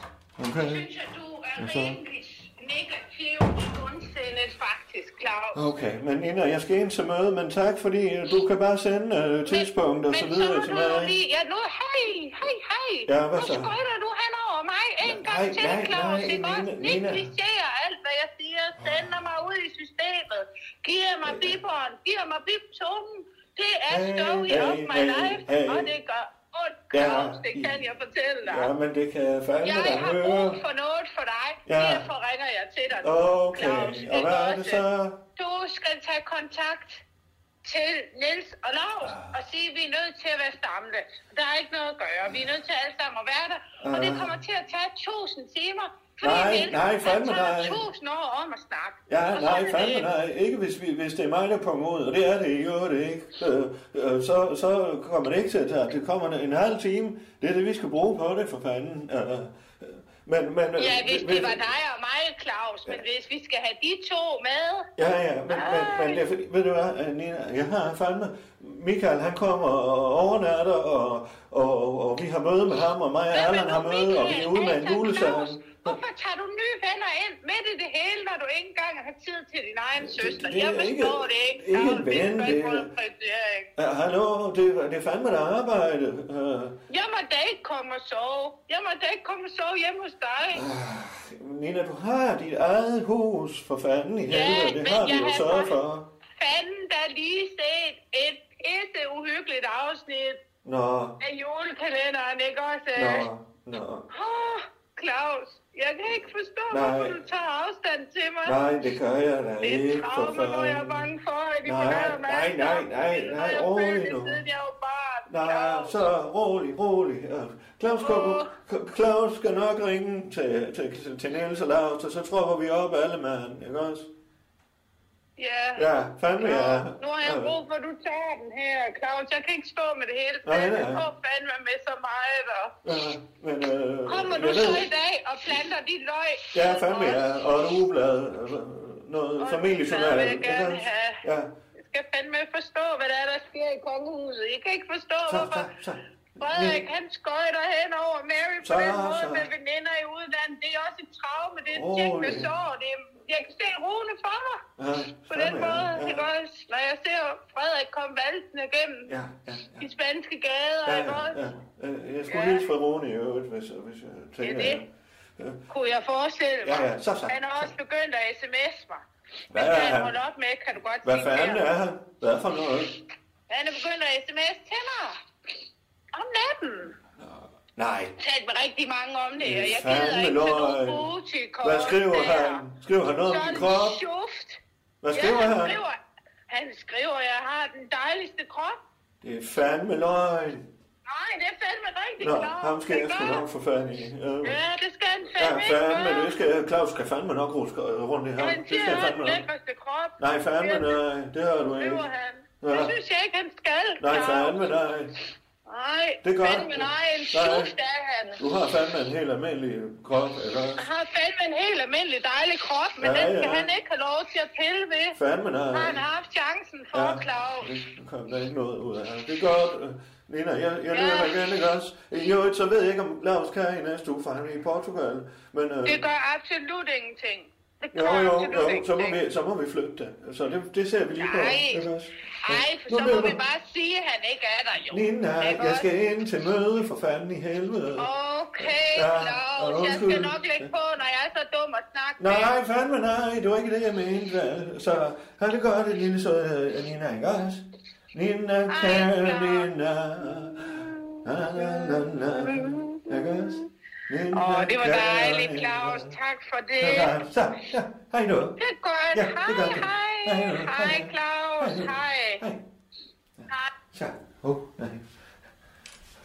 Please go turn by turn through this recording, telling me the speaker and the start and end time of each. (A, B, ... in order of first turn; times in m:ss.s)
0:00.4-0:00.9 A
0:00.6-0:05.7 B
0:01.6-0:02.0 A
0:05.5-0:11.2 A
0:09.4-0:28.7 B
0:13.1-0:13.7 A
0:15.0-0:17.3 A
0:18.8-0:19.1 A
0:21.2-0:21.5 A
0:23.9-0:25.9 A
0:26.9-0:27.8 A
0:28.4-0:30.6 A
0:29.6-0:34.8 B
0:31.6-0:32.1 A
0:33.0-0:35.2 A
0:35.4-0:37.0 B
0:37.6-0:50.1 B
0:39.0-0:39.4 A
0:43.8-0:44.3 A
0:46.2-0:47.8 A
0:49.1-1:01.6 A
1:00.8-1:04.9 B
1:05.0-1:16.0 A
1:05.5-1:06.2 B
1:13.3-1:23.7 B
1:20.0-1:22.9 A
1:23.8-1:26.8 A
1:26.9-1:30.6 B
1:30.5-1:36.1 A
1:34.3-1:35.8 B
1:36.4-1:40.4 B
1:40.6-1:41.2 A
1:41.2-1:43.3 B
1:43.0-1:44.1 A
1:44.1-1:48.6 B
1:46.7-1:47.2 A
1:48.4-1:51.1 A
1:49.6-1:56.1 B
1:51.6-1:54.4 A
1:55.3-2:04.1 A
1:58.0-1:58.5 B
2:05.4-2:05.9 B
2:05.8-2:07.5 A
2:06.4-2:12.7 B
2:10.4-2:11.1 A
2:12.8-2:14.9 A
2:14.1-2:17.4 B
2:16.5-2:21.5 A
2:19.4-2:21.2 B
2:21.8-2:25.7 B
2:25.3-2:26.9 A
2:26.4-2:34.6 B
2:28.6-2:29.5 A
2:31.7-2:32.5 A
2:34.8-2:36.3 A
2:35.3-2:39.1 B
2:39.1-2:39.9 A
2:39.8-2:41.5 B
2:40.8-2:45.6 A
2:42.3-2:42.6 B
2:44.4-2:44.8 B
2:45.7-2:51.6 B
2:46.6-2:47.4 A
2:49.5-2:50.1 A
2:51.0-2:53.0 A
2:53.5-2:55.2 B
2:56.1-2:57.0 B
2:57.8-2:58.1 A
2:58.2-3:02.6 B
2:59.4-3:01.1 A
3:01.6-3:04.0 A
3:03.2-3:04.6 B
3:05.0-3:05.8 A
3:05.1-3:06.0 B
3:06.5-3:08.8 B
3:09.2-3:10.7 A
3:11.0-3:13.5 B
3:12.2-3:14.6 A
3:14.4-3:16.4 B
3:15.4-3:19.5 A
3:18.4-3:21.0 B
3:20.2-3:22.0 A
3:21.8-3:24.7 B
3:22.6-3:22.9 A
3:24.0-3:25.1 A
3:25.6-3:28.4 B
3:26.2-3:27.7 A
3:28.4-3:30.9 A
3:30.8-3:35.2 B
3:33.0-3:33.7 A
3:35.1-3:36.0 A
3:35.7-3:37.7 B
3:36.9-3:46.0 A
3:40.9-3:41.5 B
3:45.8-3:49.2 B
3:47.9-3:53.4 A
3:51.2-3:51.9 B
3:52.4-3:55.9 B
3:54.9-3:58.1 A
3:58.0-4:02.5 B
3:58.6-4:00.7 A
4:02.2-4:16.1 A
4:08.7-4:09.7 B
4:10.6-4:13.7 B
4:14.3-4:17.2 B
4:16.8-4:18.6 A
4:18.6-4:22.4 B
4:19.1-4:22.6 A
4:23.4-4:25.1 A